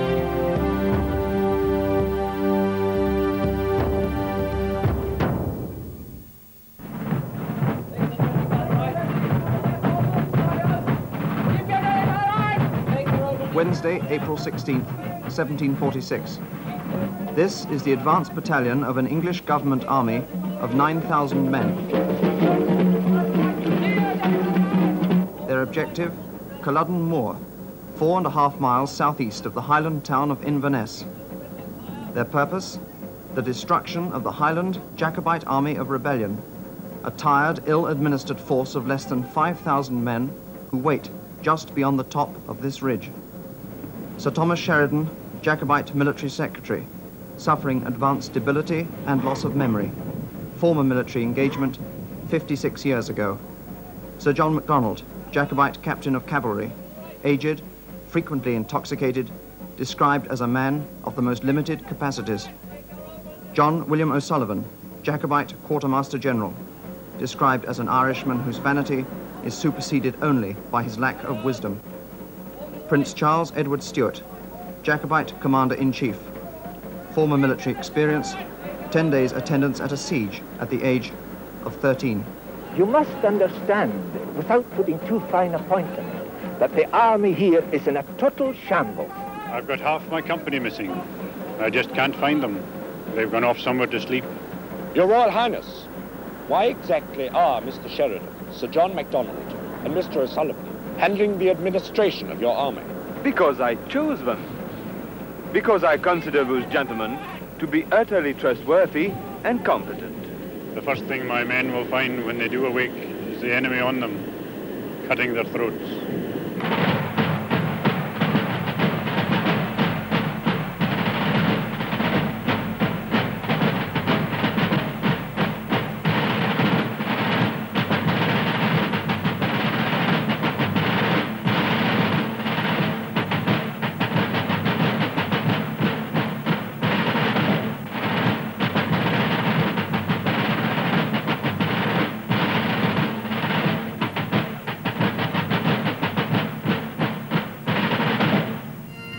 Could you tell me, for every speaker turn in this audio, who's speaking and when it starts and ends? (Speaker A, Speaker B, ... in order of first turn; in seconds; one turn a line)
Speaker A: 13.5-16.4
Speaker A: 17.3-21.9
Speaker A: 25.4-27.4
Speaker A: 27.9-31.1
Speaker A: 32.1-32.8
Speaker A: 33.3-36.4
Speaker A: 37.0-43.1
Speaker A: 44.2-49.9
Speaker A: 50.5-53.4
Speaker A: 54.2-62.5
Speaker A: 63.5-66.6
Speaker A: 67.2-71.8
Speaker A: 72.8-74.2
Speaker A: 74.8-76.3
Speaker A: 77.1-82.3
Speaker B: 82.7-89.1
Speaker C: 89.5-91.0
Speaker C: 91.6-94.3
Speaker D: 94.9-95.9
Speaker D: 96.5-102.9
Speaker E: 103.2-104.5
Speaker E: 105.5-110.3
Speaker C: 110.7-114.3
Speaker C: 115.0-116.0